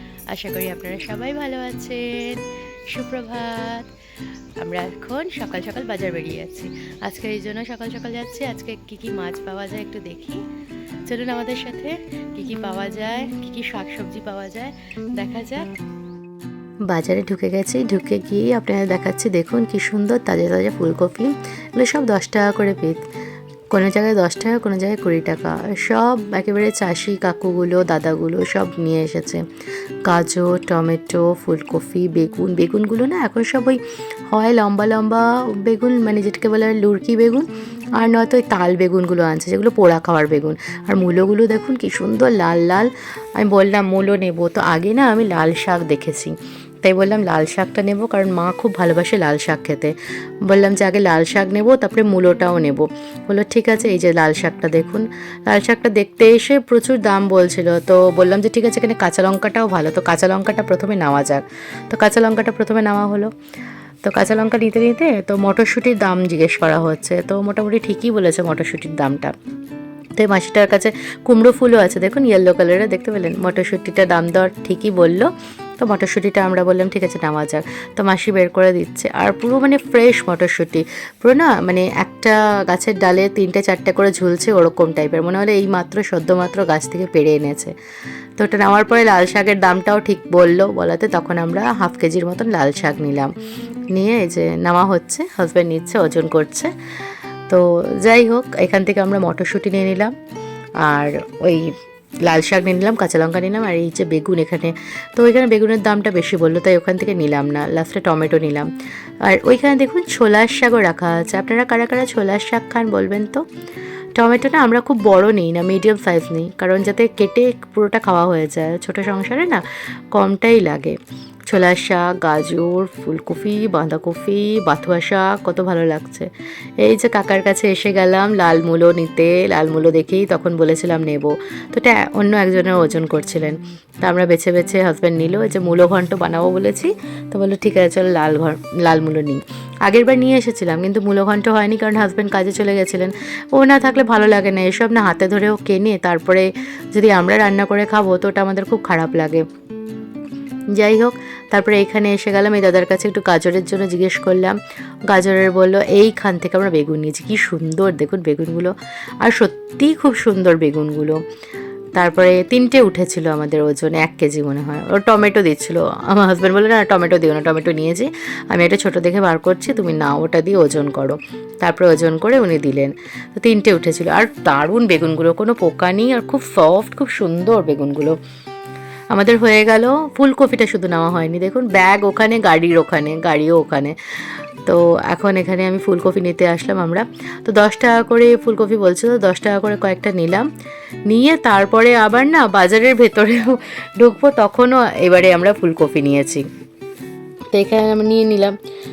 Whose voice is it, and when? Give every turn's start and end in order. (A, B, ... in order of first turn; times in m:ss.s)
0:00.3-0:02.4 A
0:02.9-0:03.9 A
0:04.6-0:10.4 A
0:11.1-0:15.7 A
0:16.9-0:23.0 A
0:23.7-0:29.4 A
0:30.0-0:49.9 A
0:50.5-1:03.3 A
1:04.0-1:09.3 A
1:10.2-1:15.3 A
1:15.8-1:27.7 A
1:28.4-1:33.3 A
1:33.9-1:36.7 A
1:37.5-1:40.1 A
1:40.9-1:41.7 A
1:42.2-1:48.7 A
1:49.3-1:53.4 A
1:54.2-2:06.3 A
2:06.8-2:29.4 A
2:30.7-2:34.6 A
2:35.1-2:38.7 A
2:39.2-2:41.2 A
2:42.0-2:58.2 A
2:59.1-3:04.0 A
3:04.7-3:10.4 A
3:11.1-3:16.4 A
3:17.5-3:18.6 A